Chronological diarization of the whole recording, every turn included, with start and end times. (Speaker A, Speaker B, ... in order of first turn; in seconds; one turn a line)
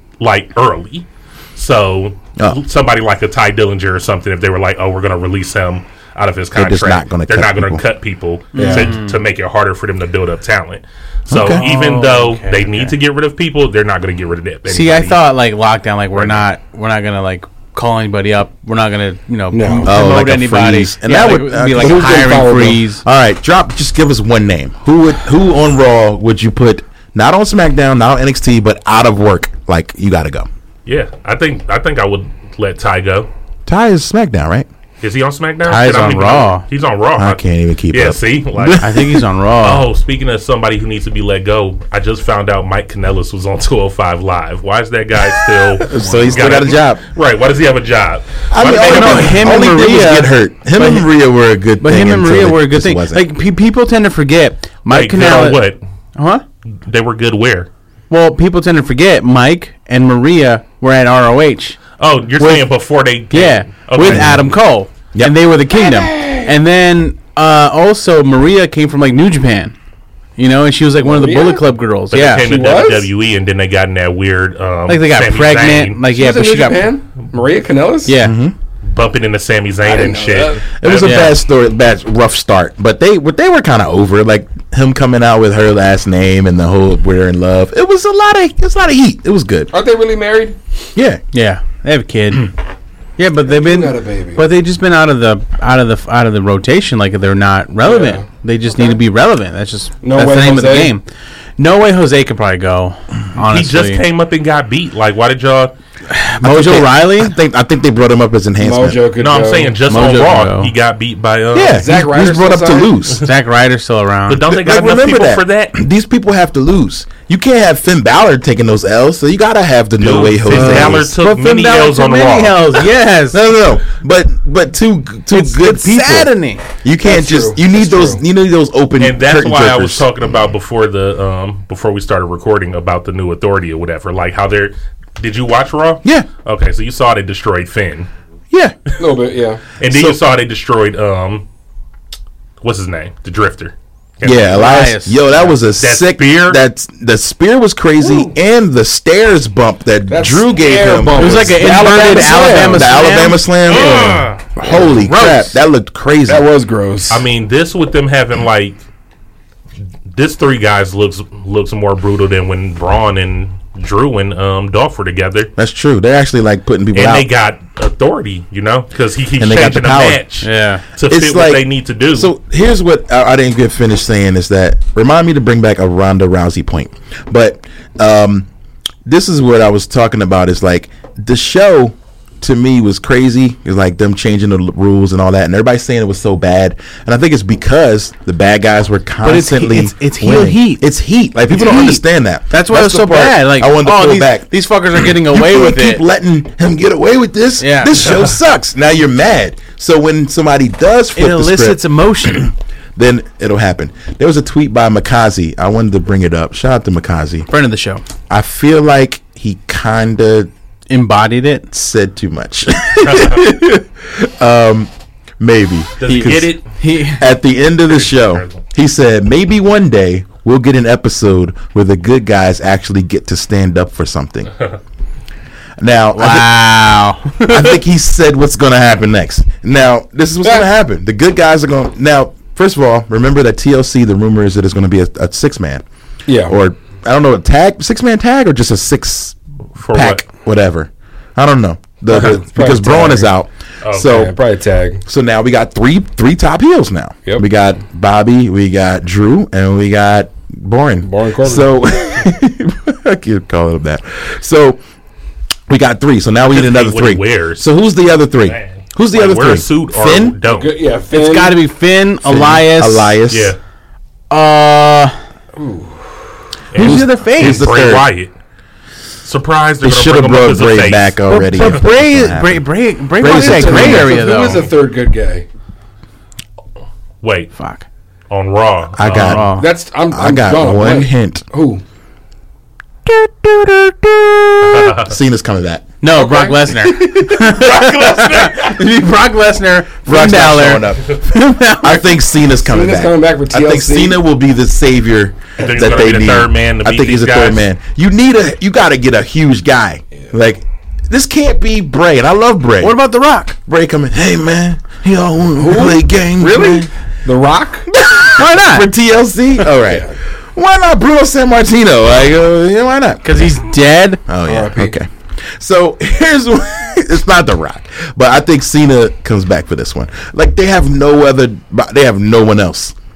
Speaker A: 0.2-15.2
Speaker B: 6.5-7.8
Speaker C: 8.5-9.2
Speaker D: 8.6-8.9
Speaker B: 11.3-11.6
Speaker C: 11.5-12.9
Speaker C: 14.7-23.0
Speaker A: 16.1-16.4
Speaker D: 19.5-20.0
Speaker B: 19.8-30.5
Speaker D: 21.8-22.8
Speaker A: 30.9-33.3
Speaker B: 33.7-34.7
Speaker A: 35.0-38.9
Speaker C: 35.6-36.6
Speaker B: 37.1-39.2
Speaker C: 38.8-39.9
Speaker A: 39.6-49.5
Speaker B: 45.9-47.0
Speaker B: 48.5-53.2
Speaker C: 48.6-51.0
Speaker C: 51.8-56.4
Speaker A: 54.9-55.8
Speaker A: 56.9-57.7
Speaker C: 58.1-61.8
Speaker A: 62.0-64.4
Speaker C: 62.4-62.7
Speaker C: 63.3-69.7
Speaker B: 64.0-64.4
Speaker D: 65.7-66.5
Speaker C: 70.4-72.6
Speaker D: 71.0-71.7
Speaker A: 72.1-76.0
Speaker D: 72.4-73.1
Speaker C: 74.9-76.9
Speaker D: 76.1-78.1
Speaker C: 78.0-78.4
Speaker B: 78.2-78.5
Speaker A: 78.8-81.3
Speaker D: 79.8-80.6
Speaker B: 80.8-89.7
Speaker C: 81.0-81.3
Speaker D: 89.7-90.6
Speaker B: 90.9-91.2
Speaker C: 91.3-92.5
Speaker C: 93.2-101.0
Speaker D: 93.5-94.5
Speaker D: 97.8-99.0
Speaker D: 100.0-100.9
Speaker B: 100.2-100.5
Speaker C: 101.6-104.0
Speaker A: 103.4-105.7
Speaker C: 106.1-107.3
Speaker B: 106.4-109.0
Speaker D: 108.6-109.8
Speaker A: 109.2-111.9
Speaker C: 109.9-110.7
Speaker B: 111.5-113.2
Speaker D: 111.7-113.0
Speaker C: 113.2-114.5
Speaker A: 114.3-115.8
Speaker B: 114.5-121.1
Speaker A: 120.0-122.8
Speaker C: 120.4-123.4
Speaker B: 123.3-130.1
Speaker C: 125.3-126.7
Speaker D: 127.0-128.2
Speaker A: 129.0-138.1
Speaker D: 139.0-139.6
Speaker A: 139.8-141.4
Speaker B: 139.9-140.2
Speaker A: 142.6-144.7
Speaker B: 144.2-156.5
Speaker C: 144.6-145.5
Speaker A: 145.8-146.6
Speaker D: 148.0-148.3
Speaker D: 150.1-153.0
Speaker C: 151.1-155.5
Speaker A: 153.7-154.3
Speaker D: 154.7-154.9
Speaker D: 156.3-157.2
Speaker A: 157.1-158.8
Speaker A: 160.1-165.5
Speaker B: 165.6-167.3
Speaker A: 166.9-172.3
Speaker B: 169.4-170.2
Speaker C: 170.4-170.8
Speaker B: 171.1-178.5
Speaker B: 179.0-194.5
Speaker C: 189.2-190.8
Speaker C: 191.5-196.0
Speaker B: 195.0-201.8
Speaker C: 197.6-198.2
Speaker C: 201.1-202.5
Speaker B: 202.9-207.5
Speaker C: 207.5-208.0
Speaker B: 208.3-210.5
Speaker C: 210.9-211.7
Speaker B: 211.7-216.6
Speaker A: 216.0-216.7
Speaker C: 216.1-217.3
Speaker B: 217.1-224.5
Speaker A: 217.9-218.6
Speaker B: 225.8-226.5
Speaker C: 226.1-227.8
Speaker B: 227.5-235.8
Speaker D: 236.2-236.6
Speaker B: 236.4-239.3
Speaker A: 239.8-240.2
Speaker B: 239.9-244.3
Speaker D: 242.1-243.3
Speaker A: 243.8-244.2
Speaker D: 244.0-245.0
Speaker B: 245.1-254.8
Speaker D: 251.0-251.7
Speaker B: 255.7-260.4
Speaker A: 256.5-257.6
Speaker A: 258.4-260.7
Speaker D: 260.5-261.6
Speaker C: 261.1-263.1
Speaker B: 262.2-263.5
Speaker A: 263.3-263.6
Speaker C: 264.3-265.1
Speaker D: 265.6-266.3
Speaker A: 266.7-268.3
Speaker C: 266.8-267.7
Speaker B: 266.8-268.1
Speaker A: 269.2-271.2
Speaker B: 269.8-272.6
Speaker C: 271.2-274.7
Speaker B: 273.2-274.2
Speaker D: 273.2-275.4
Speaker A: 277.2-277.5
Speaker C: 277.6-277.9
Speaker A: 278.3-279.4
Speaker B: 279.0-279.5
Speaker C: 279.2-279.7
Speaker D: 279.4-281.8
Speaker B: 280.1-281.4
Speaker B: 283.1-285.9
Speaker A: 284.6-285.1
Speaker C: 286.0-292.1
Speaker D: 286.1-286.7
Speaker B: 286.9-288.6
Speaker B: 290.1-303.0
Speaker D: 292.6-294.2
Speaker A: 295.6-297.6
Speaker D: 295.6-296.1
Speaker C: 302.8-303.6
Speaker B: 303.6-306.9
Speaker D: 305.6-307.9
Speaker B: 307.9-313.6
Speaker C: 308.3-308.9
Speaker D: 309.8-310.1
Speaker C: 313.2-314.3
Speaker B: 314.3-322.9
Speaker D: 314.4-315.0